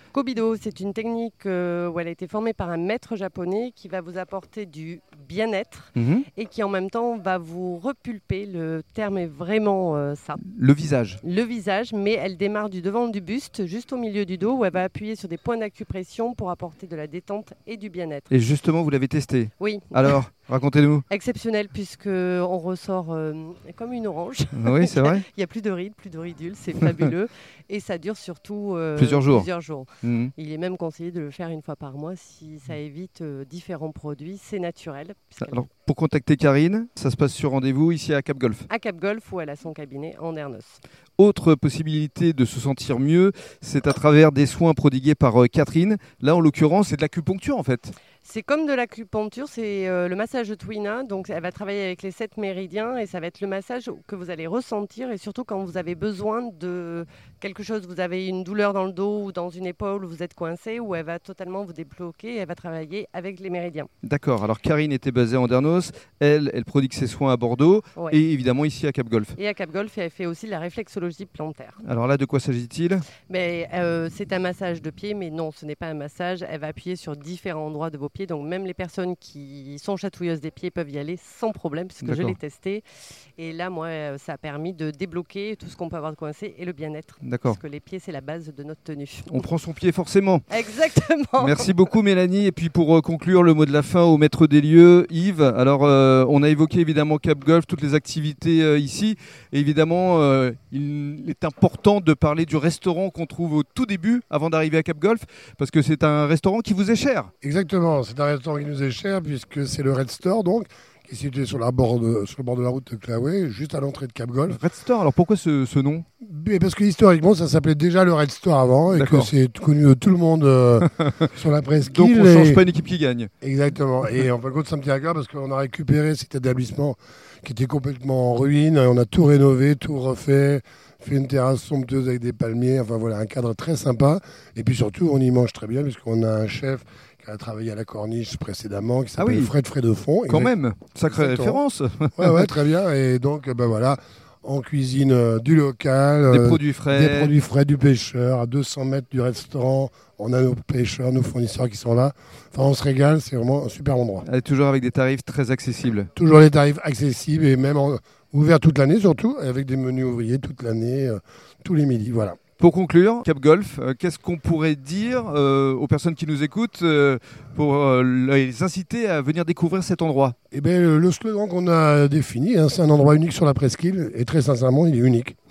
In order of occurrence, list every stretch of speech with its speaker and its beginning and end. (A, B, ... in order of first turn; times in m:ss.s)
0:00.1-0:10.4 A
0:06.0-0:06.3 B
0:10.4-0:11.2 B
0:11.2-0:18.3 A
0:18.3-0:21.0 B
0:19.6-0:20.2 A
0:21.1-0:35.7 A
0:24.5-0:25.2 B
0:29.0-0:29.5 B
0:30.0-0:30.3 B
0:35.4-0:38.7 B
0:38.7-0:40.8 A
0:41.2-0:47.9 B
0:48.2-1:03.9 A
1:04.0-1:09.4 B
1:09.4-1:11.8 A
1:11.8-1:13.1 B
1:13.3-1:22.8 A
1:22.0-1:22.4 B
1:23.4-1:29.5 A
1:27.2-1:27.6 B
1:29.3-1:30.4 B
1:30.5-1:31.9 A
1:31.4-1:47.3 B
1:47.4-1:54.6 C
1:54.5-1:56.0 B
1:56.2-2:02.6 C
1:58.9-1:59.3 B
2:00.9-2:01.3 B
2:01.8-2:03.3 B
2:03.4-2:20.5 C
2:19.2-2:19.5 B
2:20.3-2:22.5 B
2:21.1-2:21.6 C
2:22.2-2:34.2 C
2:26.3-2:27.4 B
2:34.3-2:36.1 B
2:36.2-2:42.4 C
2:42.6-2:50.4 B
2:50.5-2:55.4 C